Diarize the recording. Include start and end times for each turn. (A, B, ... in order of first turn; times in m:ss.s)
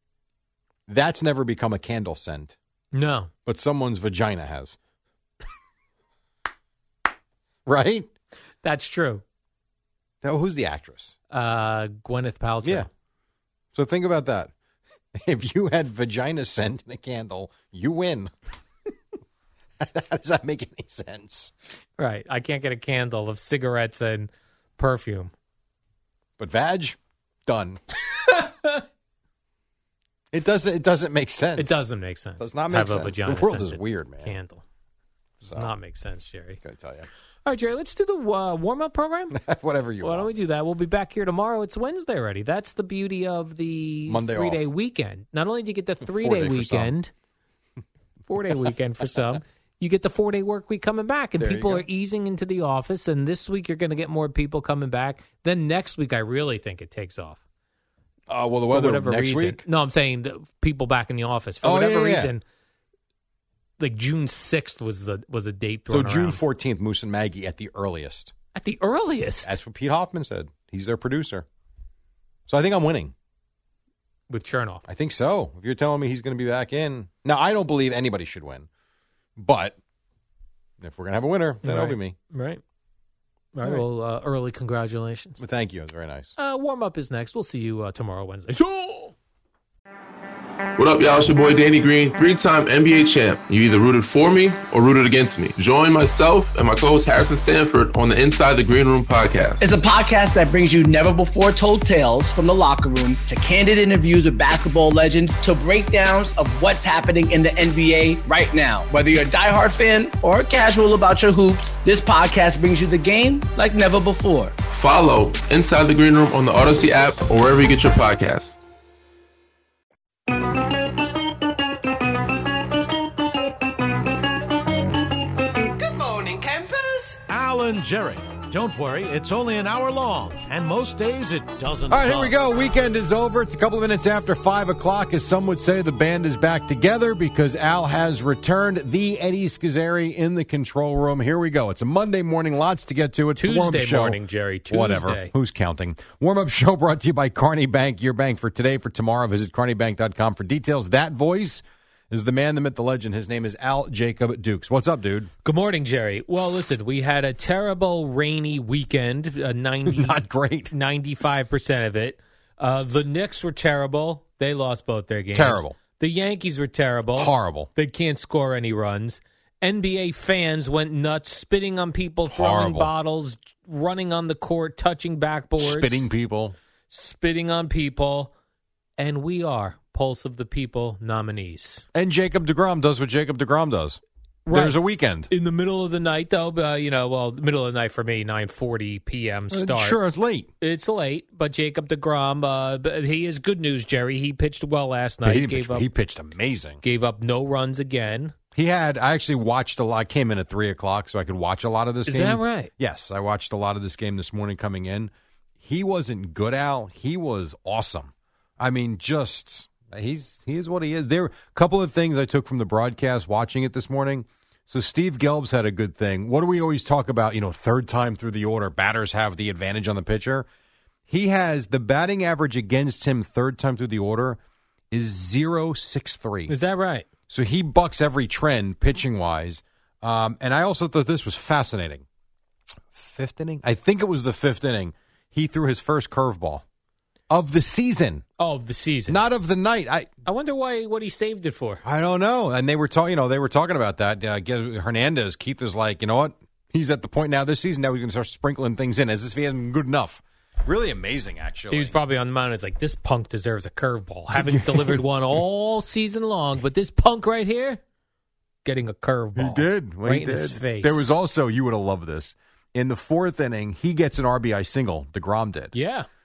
0:00.9-0:02.6 A
0:02.9-0:03.3 B
0:03.5-0:04.8 A
0:07.7-0:08.1 A
0:08.6-0:09.2 B
0:10.2-0:11.2 A
0:11.3-0:12.9 B
0:12.6-0:12.9 A
0:13.7-0:14.5 A
0:15.1-0:18.3 A
0:19.8-0:21.5 A
0:22.0-0:25.3 B
0:26.4-0:27.8 A
0:28.2-0:28.8 B
0:30.3-0:31.8 A
0:31.6-0:34.6 B
0:32.4-0:34.3 A
0:35.4-0:35.7 A
0:35.5-0:36.6 B
0:36.6-0:37.1 A
0:37.4-0:39.4 B
0:39.3-0:40.3 A
0:40.0-0:47.1 B
0:44.1-0:44.7 A
0:46.0-0:46.9 A
0:48.3-0:57.4 B
0:51.4-0:51.9 A
0:58.3-0:59.6 A
0:58.7-1:02.4 B
1:01.6-1:02.3 A
1:03.8-1:06.4 B
1:05.9-1:08.3 A
1:08.5-1:09.6 B
1:09.4-1:11.5 A
1:12.5-1:13.1 A
1:14.3-1:14.8 B
1:14.9-1:18.7 A
1:19.4-1:19.8 A
1:20.8-1:22.2 A
1:21.6-1:22.6 B
1:23.6-1:25.4 B
1:25.4-1:26.3 A
1:26.4-1:29.1 B
1:30.8-1:39.6 C
1:39.6-1:54.6 D
1:54.7-1:58.6 C
2:07.3-2:12.3 E
2:11.9-2:35.3 A
2:23.4-2:25.3 B
2:35.4-2:56.1 B
2:39.9-2:40.7 A
2:45.3-2:45.8 A
2:47.2-2:47.7 A
2:52.3-2:52.9 A
2:55.6-2:56.6 A
2:56.9-2:58.3 B
2:59.0-3:01.9 B
3:01.9-3:05.3 A
3:04.5-3:04.8 B
3:05.3-3:10.0 B
3:09.5-3:10.5 A
3:10.6-3:15.9 B
3:15.2-3:16.8 A
3:16.8-3:18.3 B
3:18.6-3:40.5 A
3:22.0-3:22.7 B
3:41.1-3:44.4 A
3:44.9-3:46.5 A
3:46.5-3:47.1 B
3:47.3-3:52.0 A
3:52.9-3:56.6 A
3:57.3-3:58.2 A
3:58.4-3:59.2 B
3:59.1-4:00.1 A
4:00.3-4:01.8 B
4:01.8-4:12.0 A
4:11.7-4:17.8 B
4:14.3-4:15.0 A
4:18.6-4:21.1 B
4:19.4-4:25.7 A
4:25.7-4:26.1 B